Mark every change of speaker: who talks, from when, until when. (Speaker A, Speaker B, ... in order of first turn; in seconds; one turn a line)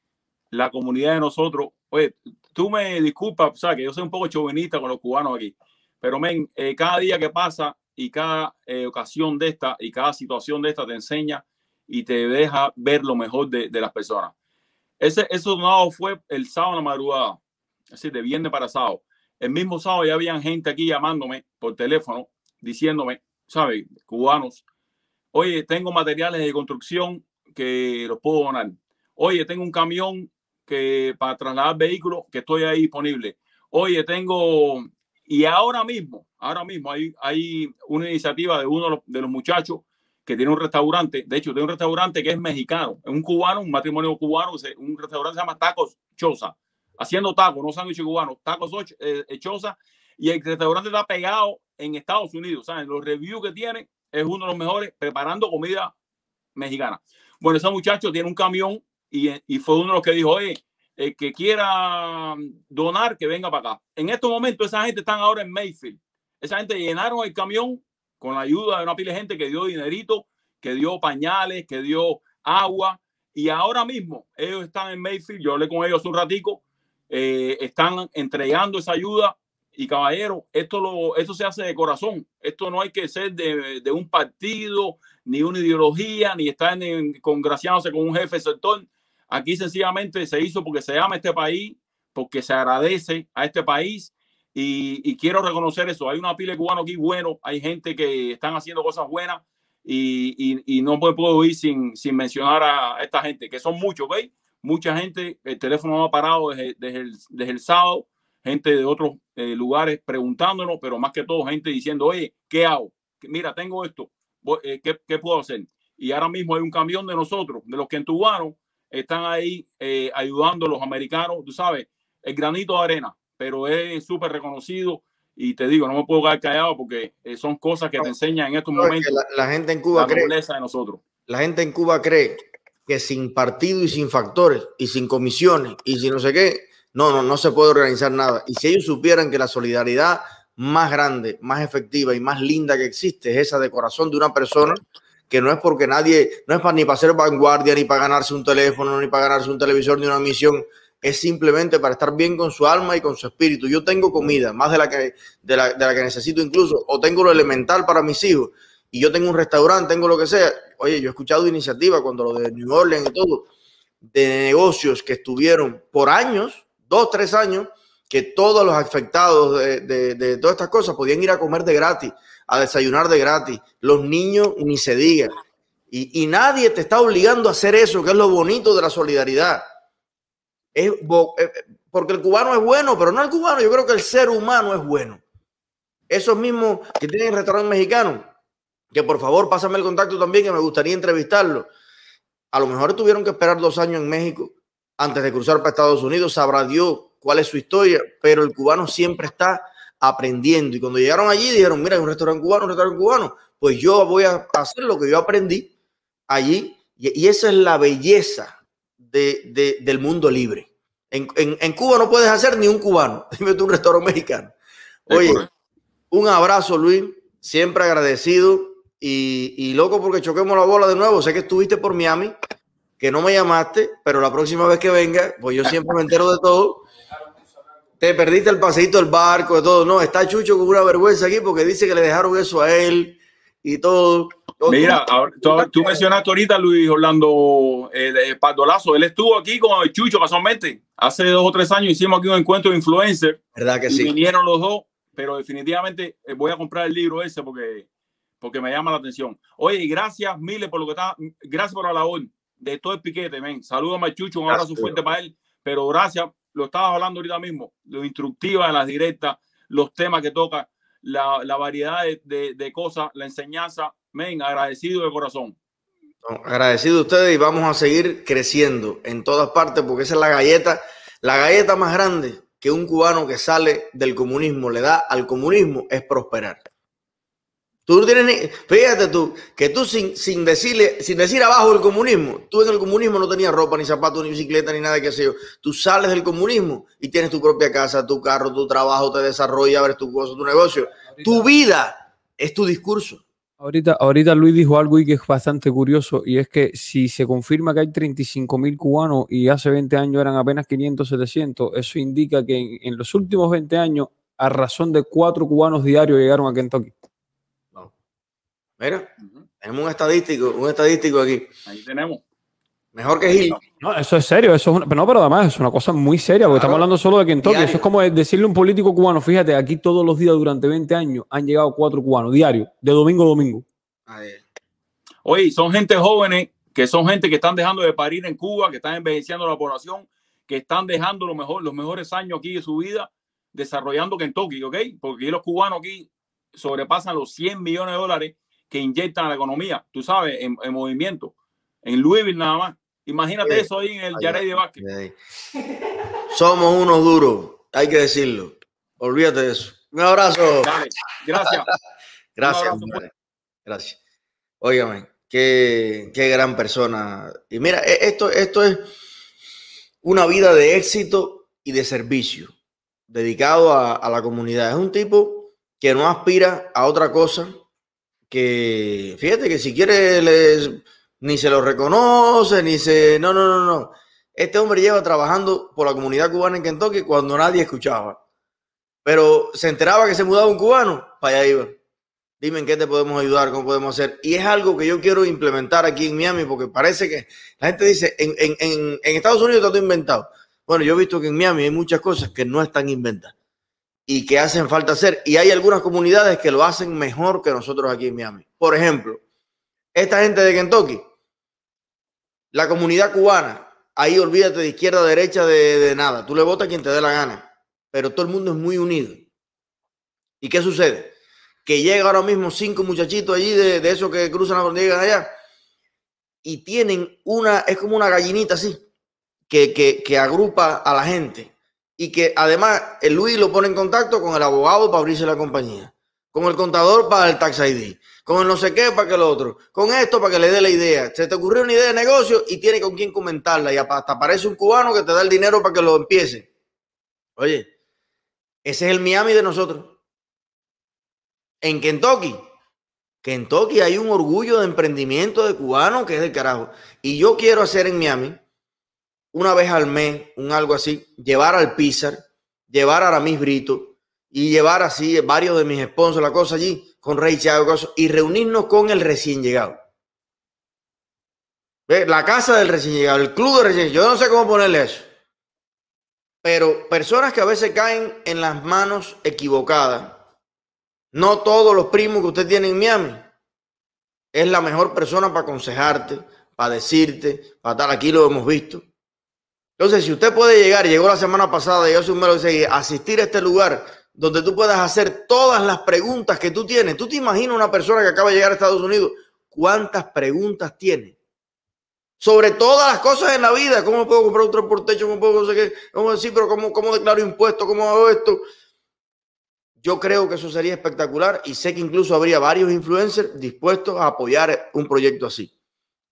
Speaker A: 0.5-14.3
Speaker A: 15.0-17.4
Speaker A: 17.9-24.6
Speaker A: 25.3-55.9
Speaker A: 56.5-129.2
Speaker B: 128.8-130.3
Speaker A: 129.9-131.0
Speaker B: 131.3-163.5
Speaker B: 164.1-175.3
Speaker B: 175.9-179.6
Speaker B: 180.7-185.2
Speaker B: 186.1-188.2
Speaker B: 188.9-191.7
Speaker B: 192.5-205.7
Speaker B: 206.3-214.5
Speaker B: 215.1-215.4
Speaker A: 215.1-215.5
Speaker B: 216.1-222.3
Speaker B: 223.0-226.8
Speaker B: 228.0-236.0
Speaker A: 234.7-247.9
Speaker B: 243.5-244.1
Speaker A: 248.4-265.6
Speaker B: 254.5-255.0
Speaker B: 266.2-276.6
Speaker B: 277.9-293.2
Speaker C: 293.6-306.9
Speaker B: 308.8-309.1
Speaker B: 309.6-311.5
Speaker A: 311.6-312.2
Speaker B: 312.9-313.6
Speaker C: 313.8-323.6
Speaker B: 316.4-316.8
Speaker A: 317.4-317.8
Speaker B: 317.4-317.7
Speaker B: 324.1-324.4
Speaker A: 325.2-341.3
Speaker A: 341.8-344.8
Speaker B: 343.4-345.1
Speaker B: 346.3-350.7
Speaker A: 350.6-351.7
Speaker B: 351.4-351.7
Speaker B: 352.4-353.1
Speaker A: 352.4-353.0
Speaker B: 353.6-354.0
Speaker B: 354.6-358.8
Speaker B: 360.0-362.5
Speaker B: 363.1-367.5
Speaker B: 368.3-378.2
Speaker B: 379.0-381.8
Speaker B: 382.4-393.3
Speaker B: 394.1-399.2
Speaker B: 399.9-401.0
Speaker B: 402.5-409.2
Speaker B: 410.4-411.1
Speaker B: 411.6-415.3
Speaker B: 416.4-418.8
Speaker B: 419.5-436.5
Speaker B: 437.4-437.7
Speaker B: 438.6-439.9
Speaker B: 441.6-442.4
Speaker B: 443.2-448.4
Speaker B: 449.3-452.2
Speaker B: 452.7-459.7
Speaker B: 461.9-465.1
Speaker B: 466.4-470.2
Speaker B: 471.1-473.2
Speaker B: 474.3-478.8
Speaker B: 479.8-491.1
Speaker B: 492.2-498.4
Speaker B: 499.8-505.5